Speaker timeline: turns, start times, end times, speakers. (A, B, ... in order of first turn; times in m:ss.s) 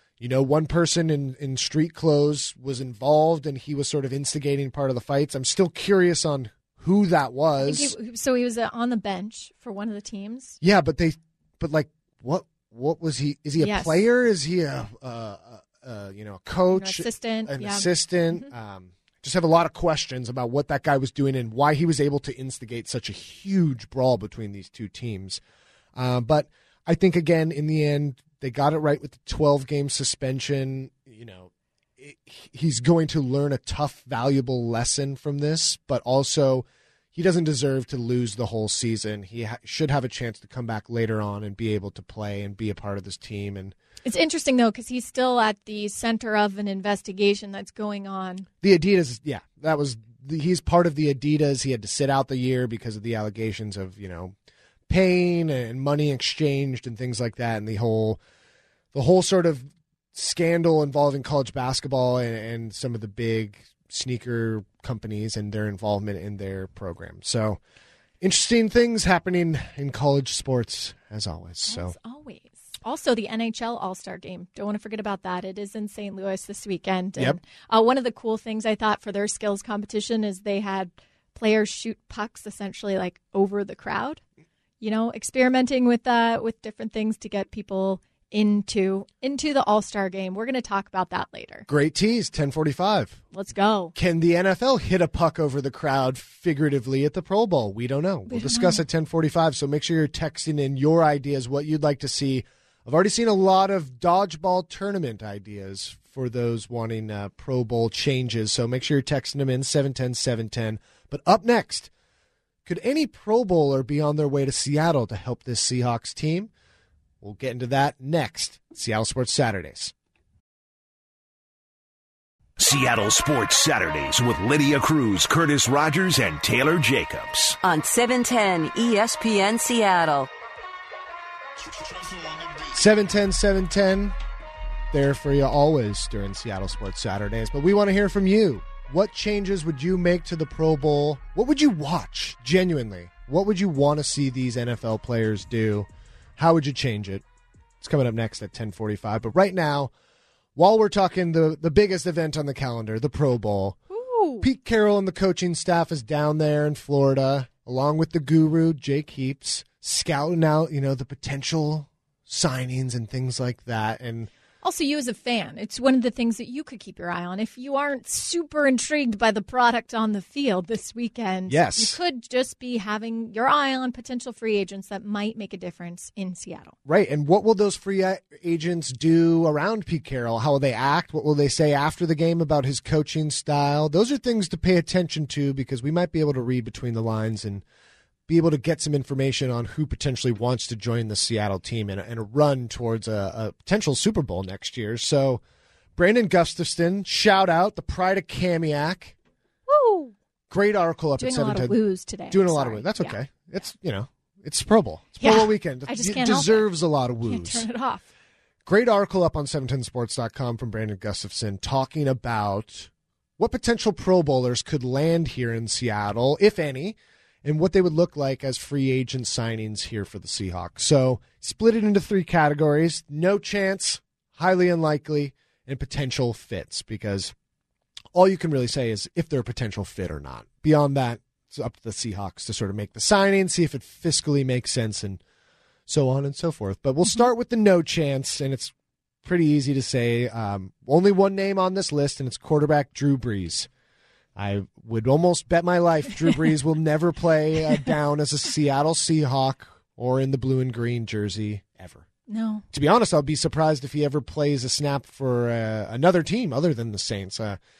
0:00.2-0:07.9 A
0:07.6-0:10.6 B
0:10.6-0:25.4 A
0:13.6-0:14.0 B
0:16.7-0:18.5 B
0:26.0-0:43.7 A
0:44.0-0:48.5 B
0:48.6-0:54.3 A
0:54.9-0:58.2 A
0:58.9-1:07.6 A
1:08.2-1:12.0 A
1:11.7-1:24.2 B
1:24.8-1:31.6 B
1:31.7-1:33.2 A
1:33.3-1:33.9 B
1:33.9-1:51.9 A
1:38.3-1:38.8 B
1:52.6-1:56.5 A
1:57.2-1:59.9 A
2:02.6-2:07.6 C
2:07.6-2:10.3 D
2:12.6-2:14.2 A
2:14.9-2:27.2 A
2:27.8-2:29.9 A
2:30.5-2:33.8 A
2:33.9-2:34.4 B
2:34.4-2:44.3 A
2:44.6-2:56.7 B
2:51.5-2:52.0 A
2:56.8-3:07.6 A
3:08.3-3:15.4 A
3:16.0-3:19.2 A
3:19.7-3:20.1 B
3:20.5-3:21.8 A
3:21.2-3:23.2 B
3:22.3-3:27.6 A
3:25.2-3:26.7 B
3:27.2-3:28.0 B
3:28.6-3:47.3 A
3:48.1-3:55.2 A
3:55.9-4:03.7 A
4:04.4-4:12.0 A
4:12.3-4:12.6 B
4:12.7-4:17.6 A